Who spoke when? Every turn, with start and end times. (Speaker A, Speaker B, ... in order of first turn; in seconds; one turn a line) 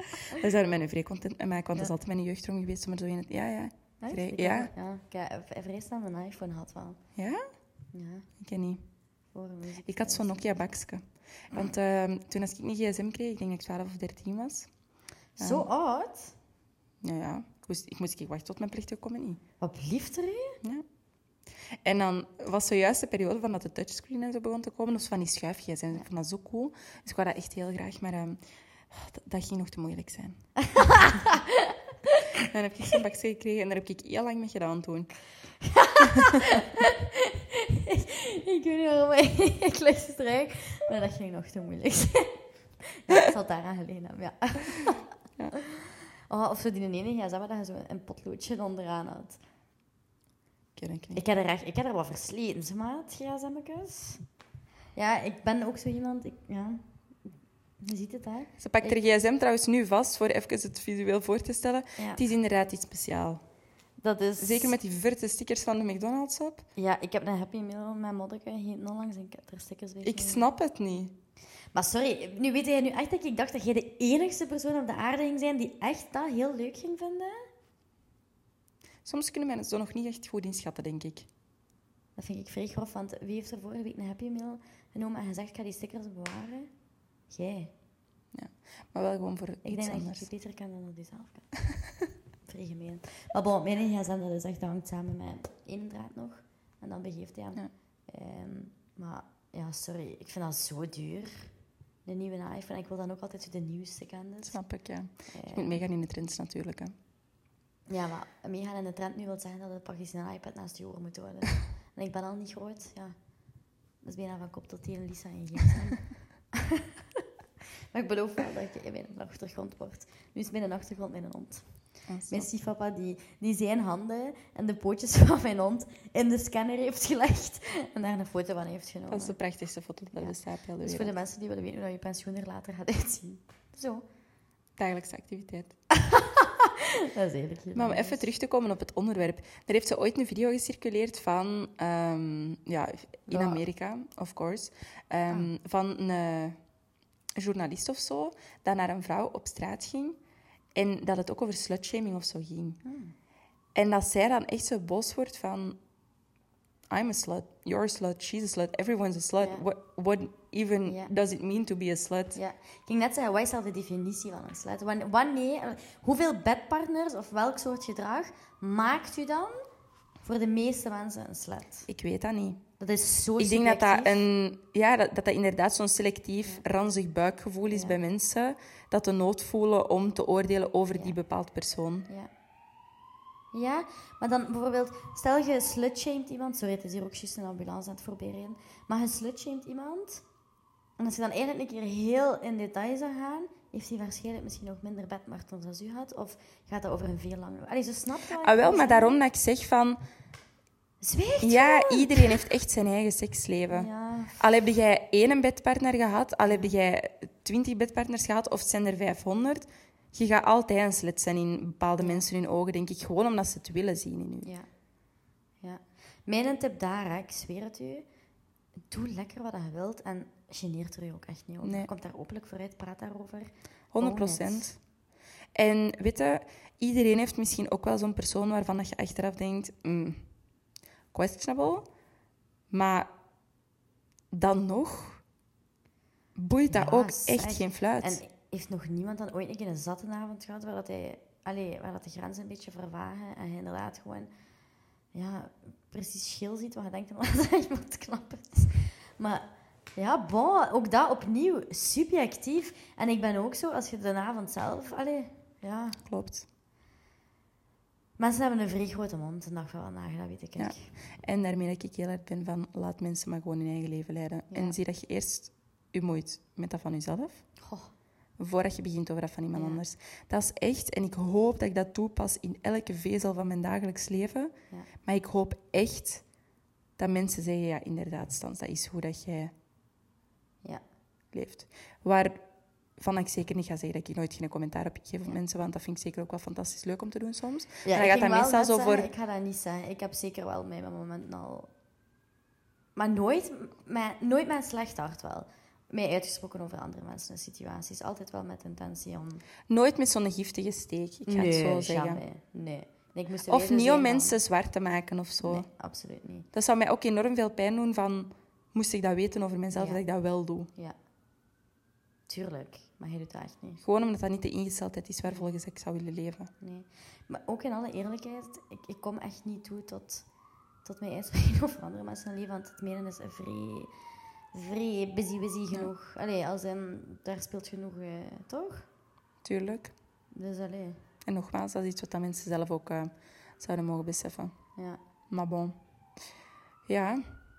Speaker A: 0.2-4.7
Speaker B: 4.0-7.0
Speaker A: 7.2-7.4
Speaker B: 7.9-8.3
Speaker A: 8.4-8.8
Speaker B: 9.3-10.7
Speaker A: 9.8-14.7
Speaker B: 15.4-16.3
Speaker A: 15.4-15.7
Speaker A: 17.0-19.4
Speaker B: 19.6-20.6
Speaker A: 21.8-28.4
Speaker A: 28.9-31.2
Speaker B: 30.6-32.2
Speaker A: 32.3-35.1
Speaker B: 35.6-49.4
Speaker A: 36.0-36.6
Speaker A: 50.8-51.2
Speaker B: 51.1-54.2
Speaker B: 55.0-56.8
Speaker B: 57.8-59.0
Speaker A: 58.6-63.4
Speaker B: 62.0-62.2
Speaker B: 64.0-64.8
Speaker A: 64.4-66.7
Speaker B: 66.8-70.4
Speaker A: 70.0-71.1
Speaker B: 71.7-77.4
Speaker A: 79.0-81.3
Speaker B: 82.2-86.7
Speaker B: 87.3-87.7
Speaker A: 88.3-90.3
Speaker B: 89.6-91.5
Speaker B: 92.5-101.5
Speaker B: 102.0-104.6
Speaker A: 104.4-106.9
Speaker B: 105.3-105.8
Speaker B: 107.9-113.1
Speaker B: 114.0-116.9
Speaker B: 117.9-121.7
Speaker A: 122.1-122.5
Speaker B: 122.3-129.3
Speaker A: 129.1-131.1
Speaker B: 130.2-134.0
Speaker A: 134.8-135.7
Speaker B: 135.9-138.2
Speaker A: 137.7-146.6
Speaker B: 143.3-143.6
Speaker A: 147.3-150.2
Speaker A: 150.7-152.8
Speaker B: 152.8-153.1
Speaker A: 153.7-155.8
Speaker A: 156.9-162.4
Speaker B: 160.8-161.1
Speaker B: 162.3-169.5
Speaker B: 170.2-171.9
Speaker A: 171.9-172.6
Speaker B: 172.8-174.3
Speaker A: 173.4-182.1
Speaker B: 177.7-178.0
Speaker B: 183.5-190.2
Speaker B: 191.0-199.2
Speaker A: 198.4-200.0
Speaker B: 201.0-202.5
Speaker A: 201.4-214.5
Speaker B: 203.7-204.4
Speaker B: 206.4-206.7
Speaker B: 212.0-212.2
Speaker B: 215.6-218.1
Speaker B: 218.9-224.7
Speaker A: 221.6-221.9
Speaker A: 223.9-224.8
Speaker A: 225.5-230.2
Speaker A: 231.1-231.9
Speaker A: 232.7-233.1
Speaker A: 234.3-235.2
Speaker A: 236.3-238.2
Speaker B: 236.7-244.3
Speaker B: 245.1-256.0
Speaker A: 256.0-256.4
Speaker B: 258.2-260.9
Speaker A: 260.6-267.4
Speaker B: 267.6-267.9
Speaker A: 268.4-276.2
Speaker B: 269.5-269.8
Speaker A: 277.0-279.5
Speaker A: 281.3-282.4
Speaker A: 283.0-289.1
Speaker B: 287.8-291.7
Speaker B: 292.9-299.4
Speaker A: 299.7-302.2
Speaker B: 301.3-304.4
Speaker A: 303.5-305.7
Speaker B: 305.4-306.4
Speaker A: 306.5-310.7
Speaker B: 309.7-310.0
Speaker B: 312.3-313.8
Speaker A: 313.8-316.5
Speaker B: 316.6-320.2
Speaker B: 320.8-323.9
Speaker B: 324.5-328.9
Speaker A: 329.4-329.9
Speaker B: 330.3-331.0
Speaker A: 331.2-334.5
Speaker A: 335.3-335.8
Speaker A: 336.9-337.2